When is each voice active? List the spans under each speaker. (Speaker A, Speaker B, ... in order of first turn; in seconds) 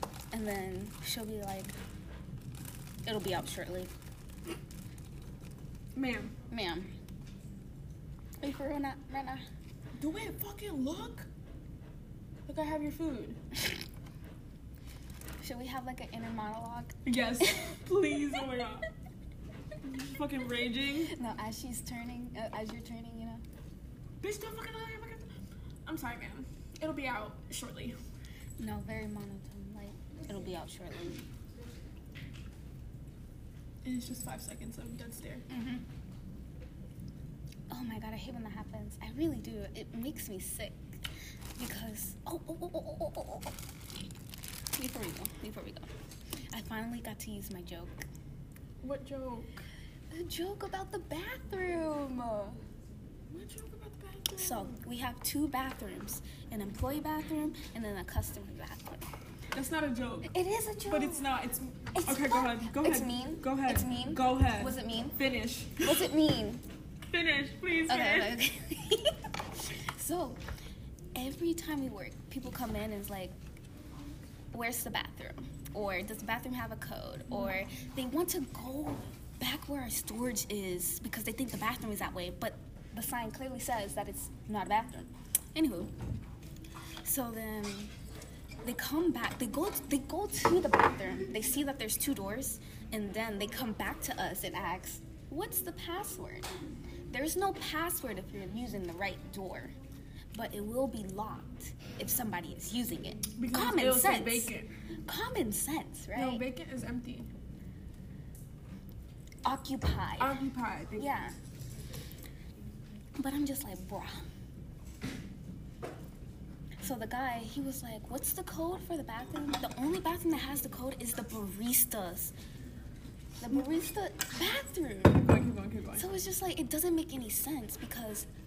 Speaker A: 0.3-1.8, 3.0-3.9, 6.5-6.9, 8.4-9.4, 15.4-17.7, 21.1-23.4, 28.6-31.2, 35.5-35.9, 37.7-41.0, 41.6-43.6, 44.8-45.9, 46.5-48.1, 50.1-52.6, 54.4-59.1, 60.3-61.3, 61.9-65.2, 65.8-66.6, 67.9-70.4, 71.2-73.4, 74.5-85.9, 87.0-87.9, 88.6-96.5, 97.1-99.8, 100.3-104.5, 105.0-106.5, 109.4-110.3, 111.0-111.3, 113.2-114.3, 116.8-122.3, 123.4-125.2, 126.0-128.3
Speaker B: 6.0-6.3, 10.0-11.3, 12.5-13.4, 17.1-18.9, 19.8-21.1, 24.2-25.3, 25.9-28.0, 33.8-35.5, 48.8-49.6, 53.3-54.8, 59.5-60.3, 60.9-66.1, 67.1-68.3, 103.4-104.7, 106.1-107.3, 110.2-111.1, 125.2-126.1